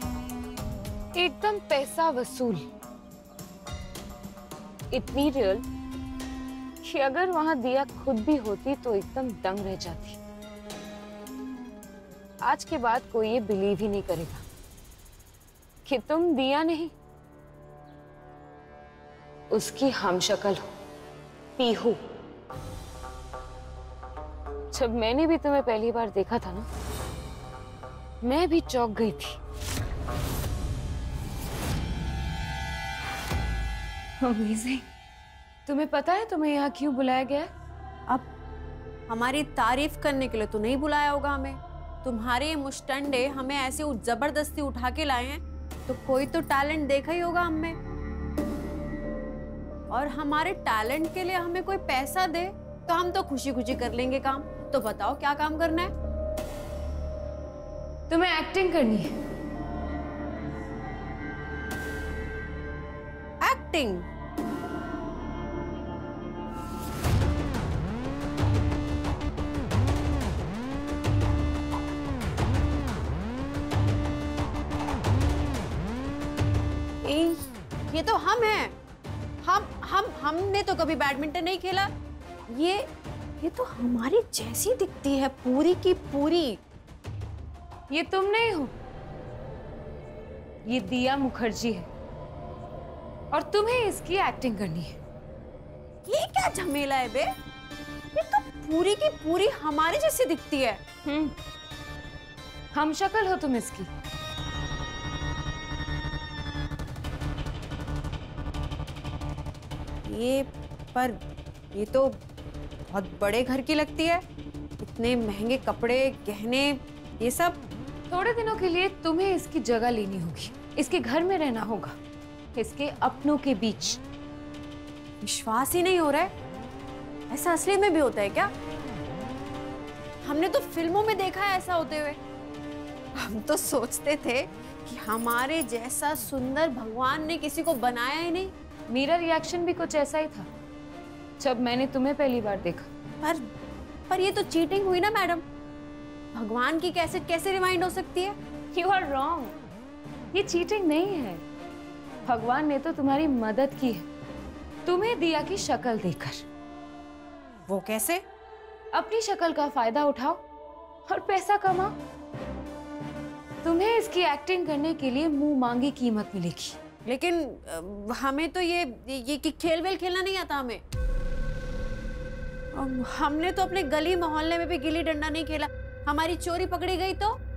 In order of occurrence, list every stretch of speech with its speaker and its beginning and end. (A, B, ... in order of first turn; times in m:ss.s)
0:01.2-0:02.6 A
0:04.9-0:05.6 A
0:06.8-0:10.2 A
0:12.4-0:14.4 A
0:15.8-0:16.9 A
0:19.5-0:20.6 A
0:21.6-0:22.0 A
0:24.7-0:26.7 A
0:28.2-0:29.4 A
0:34.2-0:34.8 A
0:35.6-0:37.5 A
0:39.1-0:47.8 B
0:49.9-0:55.9 B
0:58.1-0:59.1 A
1:03.4-1:04.0 B
1:17.0-1:17.4 B
1:17.9-1:18.7 B
1:19.4-1:21.9 B
1:22.5-1:22.9 B
1:23.4-1:26.6 B
1:27.9-1:28.7 A
1:30.6-1:31.9 A
1:33.3-1:35.0 A
1:36.0-1:37.3 B
1:38.1-1:40.8 B
1:41.0-1:41.4 A
1:42.7-1:43.9 A
1:50.0-1:51.2 B
1:51.7-1:52.2 B
1:52.9-1:54.2 B
1:54.8-1:57.6 B
1:58.1-2:01.9 A
2:02.6-2:04.0 A
2:05.2-2:06.3 B
2:07.3-2:08.5 B
2:10.2-2:12.2 B
2:13.1-2:18.5 B
2:18.9-2:20.5 A
2:21.4-2:22.9 A
2:24.1-2:25.4 B
2:26.3-2:28.3 B
2:28.7-2:29.6 A
2:30.3-2:31.4 A
2:32.2-2:34.1 A
2:34.8-2:36.4 A
2:37.7-2:38.2 B
2:38.9-2:40.4 A
2:41.1-2:41.9 A
2:43.6-2:46.8 A
2:47.0-2:50.8 B
2:52.8-2:57.4 B